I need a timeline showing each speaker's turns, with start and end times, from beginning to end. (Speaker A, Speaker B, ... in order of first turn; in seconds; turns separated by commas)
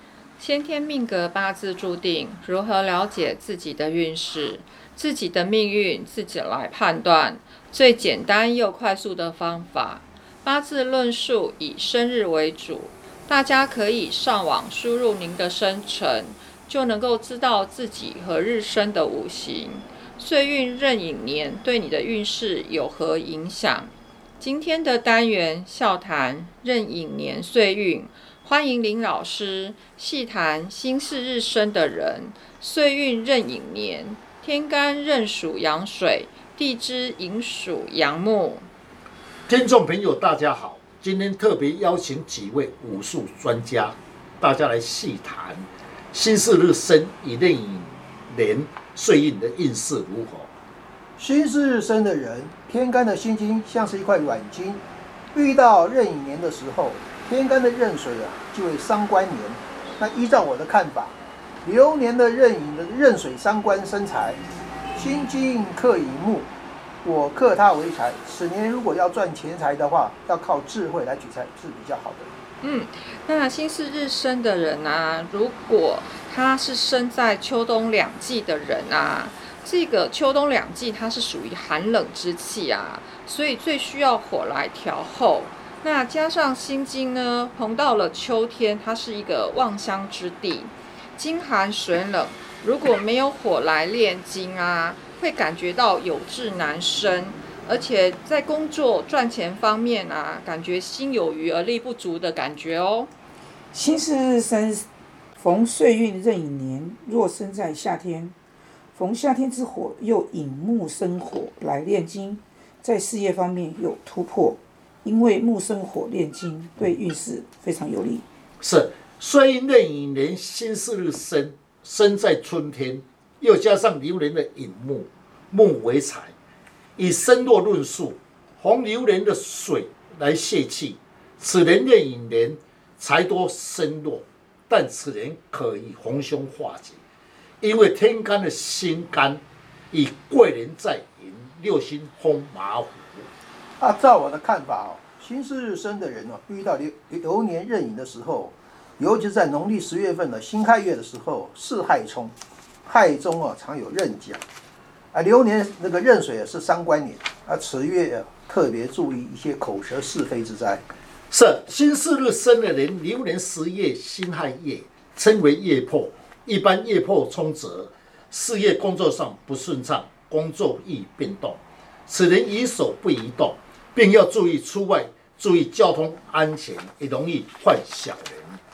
Speaker A: 0.4-38.7, Speaker B: 39.5-50.5, Speaker C: 51.2-54.8, Speaker C: 55.3-64.4, Speaker C: 65.0-66.5, Speaker C: 67.0-72.3, Speaker A: 72.6-103.1, Speaker D: 103.7-108.3, Speaker D: 108.9-118.2, Speaker B: 118.6-126.3, Speaker B: 127.0-137.0, Speaker B: 137.6-143.3, Speaker C: 143.8-152.3, Speaker C: 152.8-154.4, Speaker C: 155.1-160.8, Speaker B: 161.3-178.6